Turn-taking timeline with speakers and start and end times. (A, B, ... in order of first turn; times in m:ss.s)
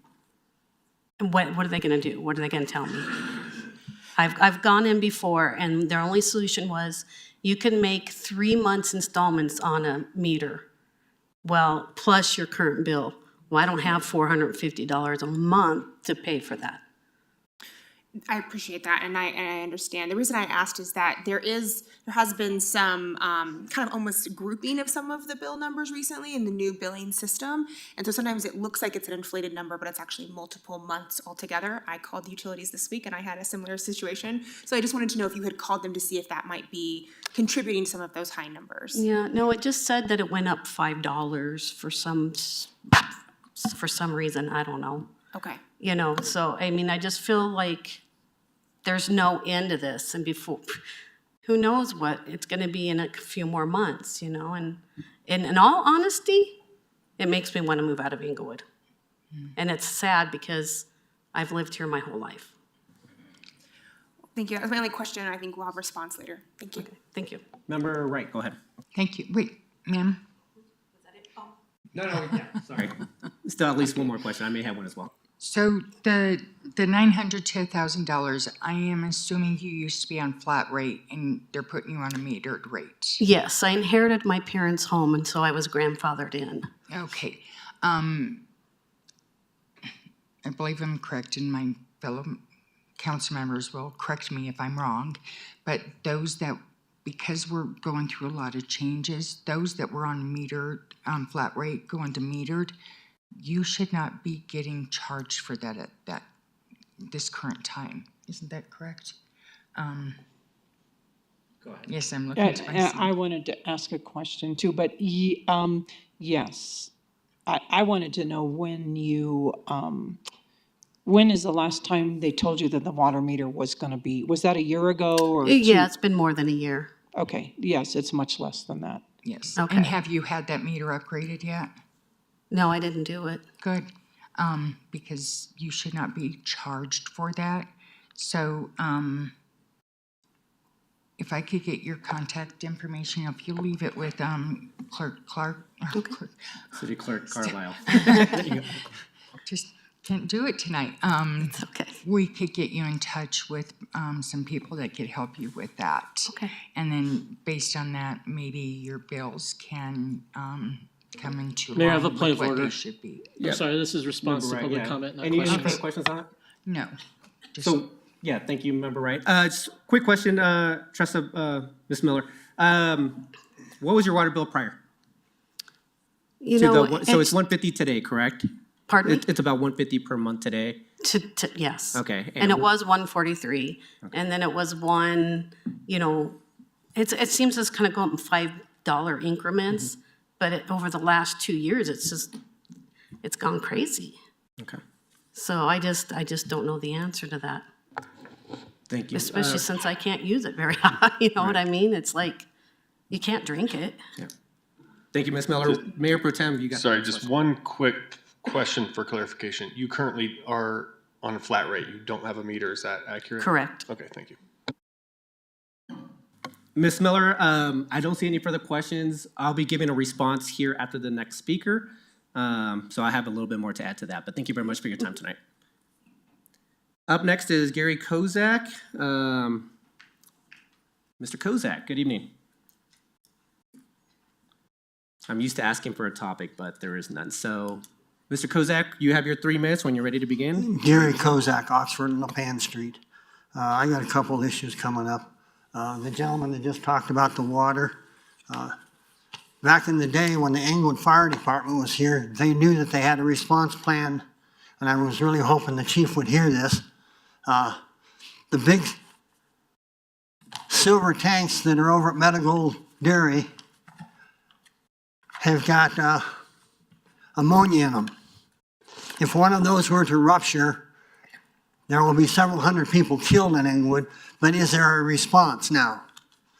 0:01.2-0:03.3 A
0:04.2-0:10.6 A
0:11.4-0:16.8 A
0:18.5-0:38.7 B
0:38.9-0:43.0 A
0:43.6-0:45.1 A
0:45.8-0:48.0 A
0:48.8-0:50.8 A
0:51.4-0:56.6 A
0:57.2-0:58.6 A
0:59.6-1:02.5 A
1:04.6-1:06.6 B
1:06.8-1:07.4 A
1:07.7-1:08.6 C
1:08.9-1:10.2 D
1:11.9-1:12.9 C
1:13.4-1:15.1 C
1:15.4-1:23.2 D
1:23.2-1:26.7 A
1:26.9-1:28.4 D
1:30.4-1:32.4 D
1:33.0-1:42.7 D
1:43.3-1:46.2 D
1:47.1-1:49.2 D
1:49.8-1:50.2 D
1:51.8-1:53.1 D
1:52.3-1:56.9 E
1:57.5-2:00.2 E
2:01.0-2:05.9 E
2:05.4-2:06.9 A
2:07.2-2:09.0 E
2:09.2-2:11.7 D
2:09.6-2:09.9 A
2:12.5-2:13.4 A
2:13.6-2:19.3 D
2:21.2-2:26.8 D
2:26.8-2:28.6 C
2:28.0-2:28.4 D
2:29.4-2:43.3 D
2:31.5-2:32.0 A
2:36.3-2:36.5 A
2:41.8-2:42.7 F
2:43.4-2:43.7 C
2:43.4-2:45.8 F
2:44.2-2:46.3 C
2:45.5-2:45.8 D
2:46.7-2:46.9 D
2:47.5-2:47.8 D
2:47.6-2:53.2 C
2:53.8-2:54.8 C
2:56.4-2:57.3 A
2:56.6-2:58.5 C
2:58.9-2:59.2 A
2:59.0-3:00.8 C
3:01.0-3:06.4 A
3:01.9-3:02.6 C
3:07.0-3:12.3 A
3:13.2-3:14.2 A
3:15.3-3:17.6 A
3:18.9-3:19.6 C
3:19.1-3:22.4 A
3:23.1-3:24.0 A
3:25.1-3:27.3 C
3:26.7-3:34.4 G
3:33.4-3:33.8 A
3:36.8-3:45.4 C
3:47.1-3:49.7 C
3:51.2-3:52.3 C
3:55.3-4:01.1 C
4:00.5-4:03.0 H
4:03.5-4:07.9 H
4:08.5-4:08.7 H
4:09.6-4:14.2 H
4:14.8-4:16.8 H
4:17.4-4:17.8 H
4:18.5-4:18.9 H
4:20.7-4:23.5 H
4:25.4-4:26.3 H
4:27.4-4:28.1 H
4:29.2-4:30.8 H
4:31.9-4:36.0 H